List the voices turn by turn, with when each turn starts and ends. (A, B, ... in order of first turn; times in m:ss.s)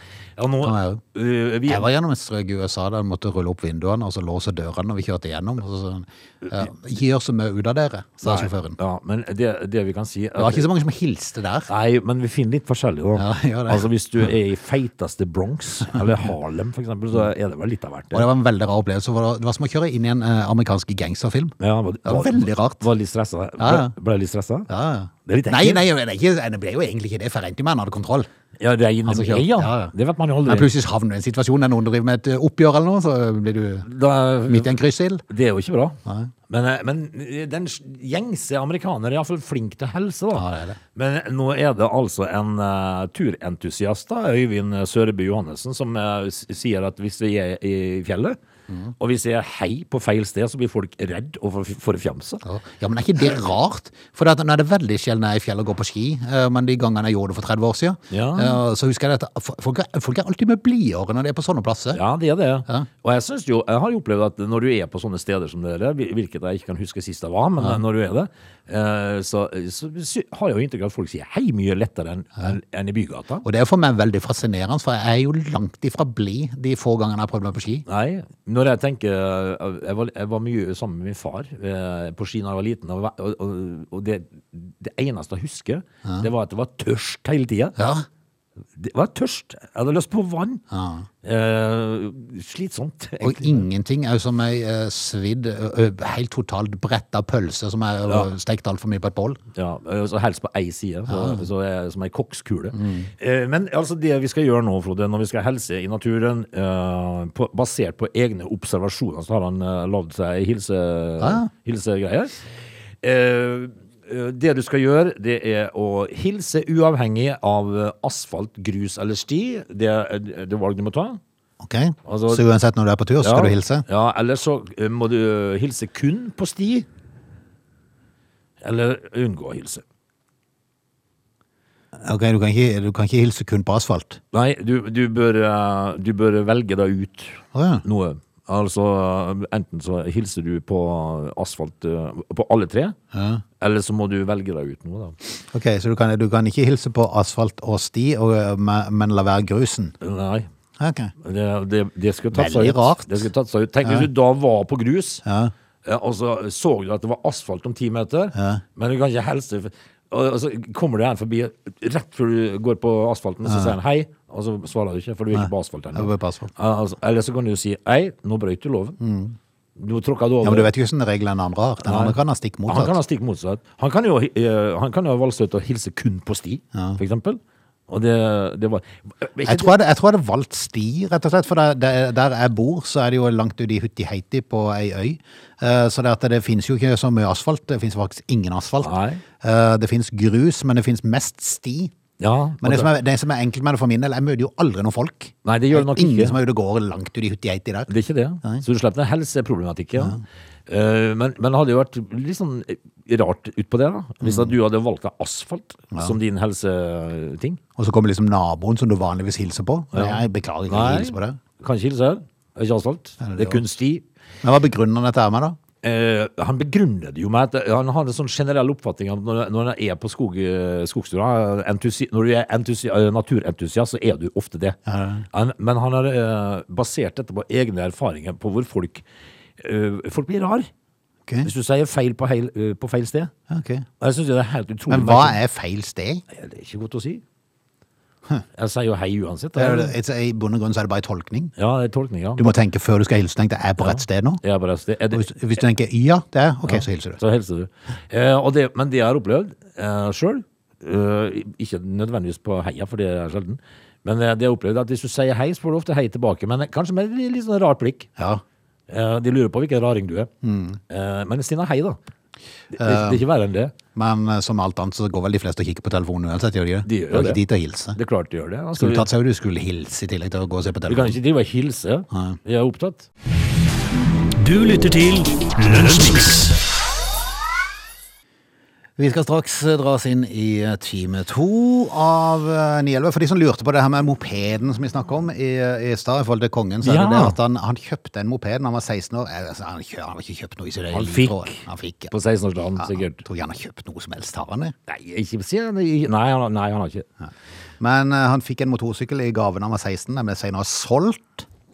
0:00.4-0:01.9 A
0:00.6-0:01.0 B
0:01.7-0:08.8 B
0:08.2-0:10.7 A
0:10.4-0:11.7 B
0:11.7-0:18.3 A
0:13.2-0:13.8 B
0:18.1-0:22.8 B
0:21.6-0:24.7 A
0:23.6-0:23.9 B
0:24.7-0:28.3 B
0:25.2-0:25.8 A
0:28.6-0:30.7 A
0:29.0-0:29.9 B
0:30.4-0:33.9 B
0:33.9-0:34.7 A
0:34.5-0:35.2 B
0:35.3-0:36.0 A
0:36.5-0:48.4 A
0:40.3-0:40.8 B
0:49.0-0:52.4 A
0:52.4-1:02.0 B
0:58.1-0:58.6 A
1:01.9-1:13.4 A
1:13.4-1:17.8 B
1:17.9-1:27.8 A
1:27.8-1:28.0 B
1:28.8-1:30.6 A
1:30.7-1:31.1 B
1:31.2-1:33.6 A
1:33.2-1:39.4 B
1:39.5-1:52.4 A
1:41.1-1:41.4 B
1:42.7-1:43.1 B
1:51.2-1:51.5 B
1:53.0-2:01.2 A
2:01.6-2:03.8 B
2:02.0-2:02.4 A
2:03.2-2:06.8 A
2:08.6-2:09.8 A
2:12.0-2:14.2 B
2:14.3-2:23.0 A
2:17.5-2:17.8 B
2:23.1-2:23.4 B
2:23.6-2:25.2 A
2:25.5-2:29.9 B
2:30.0-2:30.5 A
2:30.8-2:31.1 B
2:31.2-2:35.2 A
2:32.3-2:33.3 B
2:35.2-2:35.5 B
2:35.8-2:49.0 A
2:38.3-2:38.6 B
2:43.4-2:43.8 B
2:45.3-2:46.5 B
2:49.0-2:49.4 B
2:49.8-2:50.7 A
2:50.4-2:53.0 B
2:51.8-2:59.7 A
2:56.7-2:57.0 B
2:59.4-3:11.9 B
3:08.8-3:09.2 A
3:12.2-3:12.9 A
3:12.6-3:17.9 B
3:15.4-3:16.4 A
3:17.9-3:27.6 A
3:24.2-3:24.5 B
3:27.8-3:31.4 B
3:29.9-3:34.0 A
3:33.2-3:33.6 B
3:34.4-3:35.6 B
3:35.8-3:44.8 A
3:44.9-3:45.2 B
3:45.3-3:49.0 A
3:49.6-3:50.7 A
3:51.4-3:53.3 A
3:53.5-3:53.9 B
3:54.0-3:55.4 A
3:54.9-3:56.2 B
3:56.3-3:57.2 A
3:58.6-4:00.0 A
3:59.6-4:01.5 B
4:01.6-4:02.6 A
4:02.4-4:04.4 B
4:03.8-4:05.3 A
4:05.1-4:07.2 B
4:06.6-4:18.1 A
4:18.9-4:20.3 A
4:20.4-4:20.8 B
4:20.9-4:22.0 A
4:22.7-4:23.7 A
4:22.8-4:23.2 B
4:23.9-4:28.0 B
4:26.8-4:27.4 A
4:27.9-4:29.1 A
4:28.8-4:31.2 B
4:30.9-4:33.1 A
4:32.1-4:32.4 B
4:34.4-4:36.6 C
4:39.0-4:52.1 B
4:46.8-4:47.4 A
4:50.9-4:53.2 A
4:52.8-4:54.7 B
4:54.9-4:57.0 A
4:57.2-5:01.4 B